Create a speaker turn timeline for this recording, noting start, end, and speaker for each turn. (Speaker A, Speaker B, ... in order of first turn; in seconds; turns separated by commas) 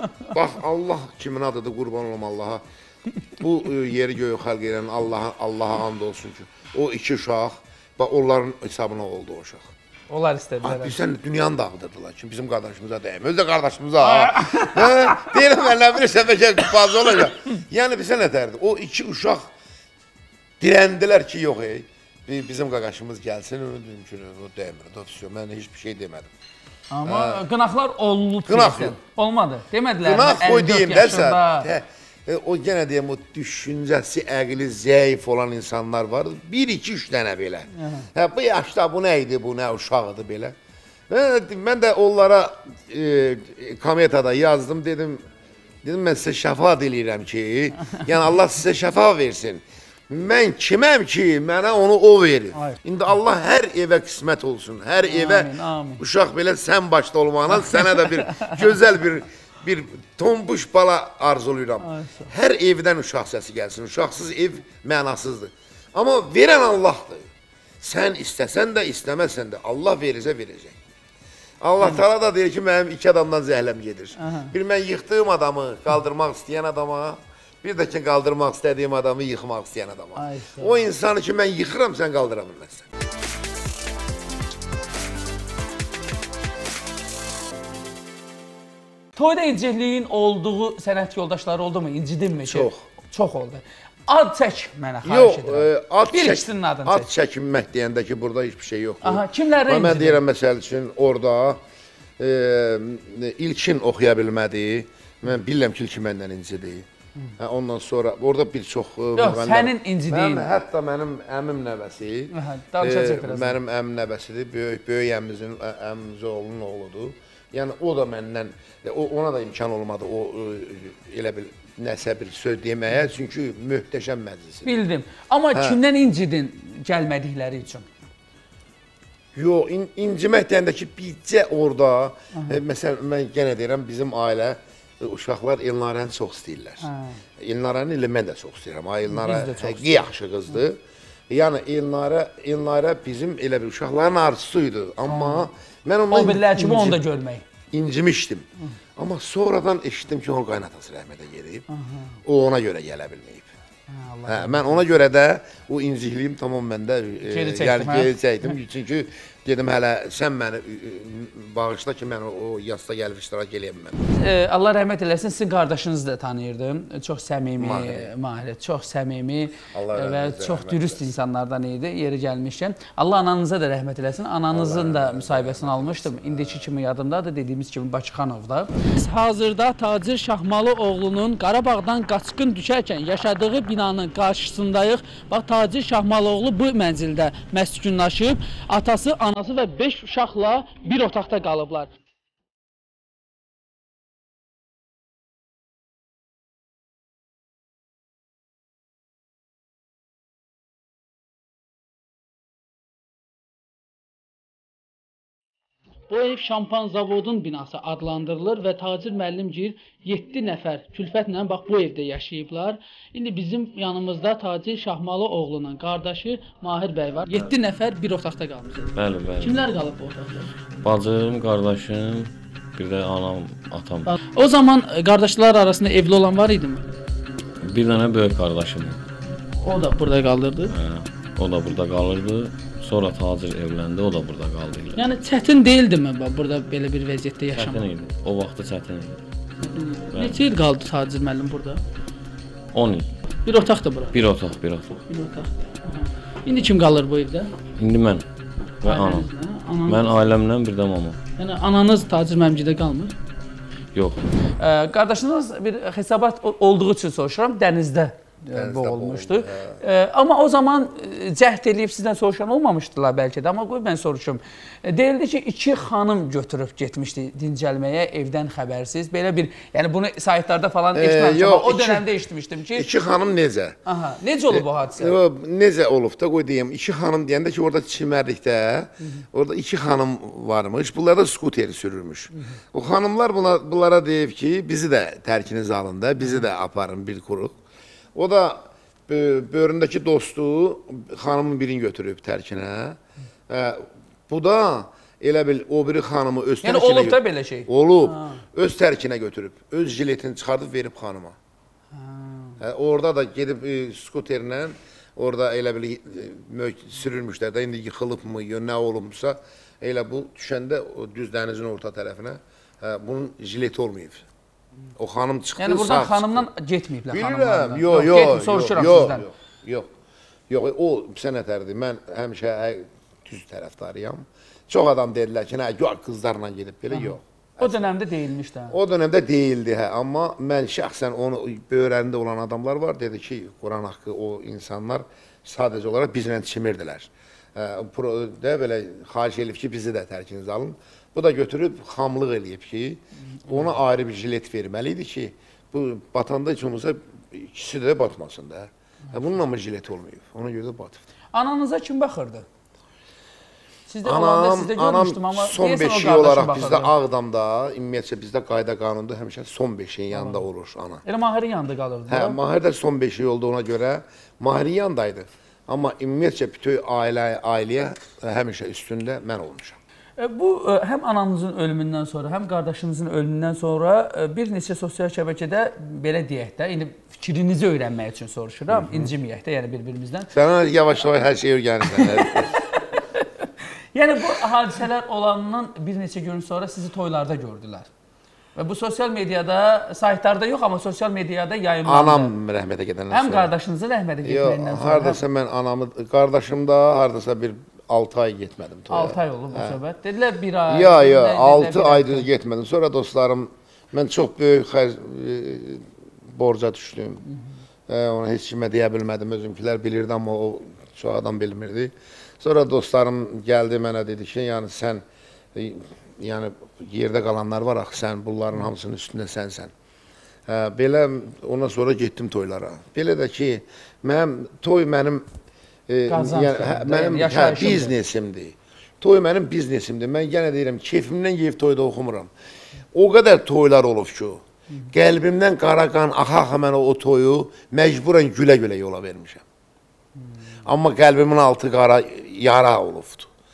Speaker A: 0.3-2.6, Speaker A: 3.4-9.7, Speaker B: 10.1-11.0, Speaker A: 10.6-19.5, Speaker B: 14.0-15.3, Speaker A: 20.6-26.3, Speaker B: 26.9-31.7, Speaker A: 27.1-27.4, Speaker A: 28.4-28.9, Speaker A: 30.0-40.5, Speaker B: 37.7-38.1, Speaker A: 41.1-45.2, Speaker A: 45.8-67.3, Speaker B: 55.0-56.0, Speaker B: 57.7-58.5, Speaker B: 61.8-62.3, Speaker A: 67.8-70.8, Speaker A: 71.6-82.9, Speaker B: 74.2-74.5, Speaker B: 80.2-80.8, Speaker B: 89.2-97.1, Speaker A: 92.4-92.8, Speaker A: 95.0-101.6, Speaker B: 99.0-100.2, Speaker A: 102.2-106.8, Speaker A: 107.4-124.7, Speaker B: 109.2-110.5, Speaker B: 112.3-113.6, Speaker B: 124.6-127.8, Speaker A: 129.3-136.8, Speaker B: 136.8-137.2, Speaker A: 137.4-147.0, Speaker B: 139.1-140.5, Speaker B: 145.1-145.5, Speaker B: 146.1-147.4, Speaker A: 147.7-151.7, Speaker B: 151.7-152.2, Speaker A: 152.2-153.5, Speaker B: 153.9-155.0, Speaker A: 154.2-164.0, Speaker B: 157.3-158.1, Speaker B: 164.1-191.9, Speaker A: 167.6-168.1, Speaker A: 169.7-171.1, Speaker A: 174.5-176.7, Speaker B: 206.1-218.9, Speaker C: 218.9-219.7, Speaker B: 219.4-220.5, Speaker C: 220.8-224.1, Speaker B: 224.1-226.8, Speaker C: 227.6-229.0, Speaker B: 229.6-230.7, Speaker C: 230.7-235.0, Speaker B: 234.9-237.9, Speaker C: 237.5-239.2, Speaker B: 239.7-241.8, Speaker C: 240.1-240.4, Speaker C: 242.7-243.1, Speaker B: 243.4-244.1, Speaker C: 244.1-245.0, Speaker B: 245.1-247.5, Speaker C: 247.8-248.2, Speaker C: 248.8-249.3, Speaker B: 248.8-250.1, Speaker C: 249.8-251.2, Speaker B: 251.4-253.1, Speaker C: 253.9-254.2, Speaker B: 254.6-272.9, Speaker A: 258.5-259.8, Speaker A: 270.9-272.1, Speaker A: 272.7-273.8, Speaker B: 273.9-275.2, Speaker A: 274.5-287.5, Speaker A: 288.1-293.0, Speaker A: 293.5-301.4, Speaker B: 296.6-298.4, Speaker B: 301.9-302.6, Speaker A: 302.6-314.2, Speaker A: 314.9-316.5, Speaker B: 315.6-319.2, Speaker A: 317.1-319.9, Speaker A: 320.5-327.8, Speaker B: 326.9-328.8, Speaker A: 328.7-351.0, Speaker B: 351.3-352.4, Speaker B: 353.9-356.9, Speaker A: 354.0-361.0, Speaker B: 360.1-360.4, Speaker B: 361.1-362.4, Speaker A: 362.1-369.8, Speaker B: 370.2-380.3, Speaker A: 378.7-379.1, Speaker A: 380.3-382.5, Speaker B: 381.9-382.2, Speaker B: 383.9-387.9, Speaker B: 388.6-392.3, Speaker A: 391.8-393.5, Speaker B: 393.1-395.2, Speaker A: 394.2-399.8, Speaker B: 398.9-402.2, Speaker A: 400.7-407.2, Speaker A: 407.9-415.0, Speaker A: 415.5-419.7, Speaker A: 420.5-425.3, Speaker A: 425.9-432.3, Speaker B: 426.1-427.9, Speaker A: 432.9-439.4, Speaker A: 440.6-443.3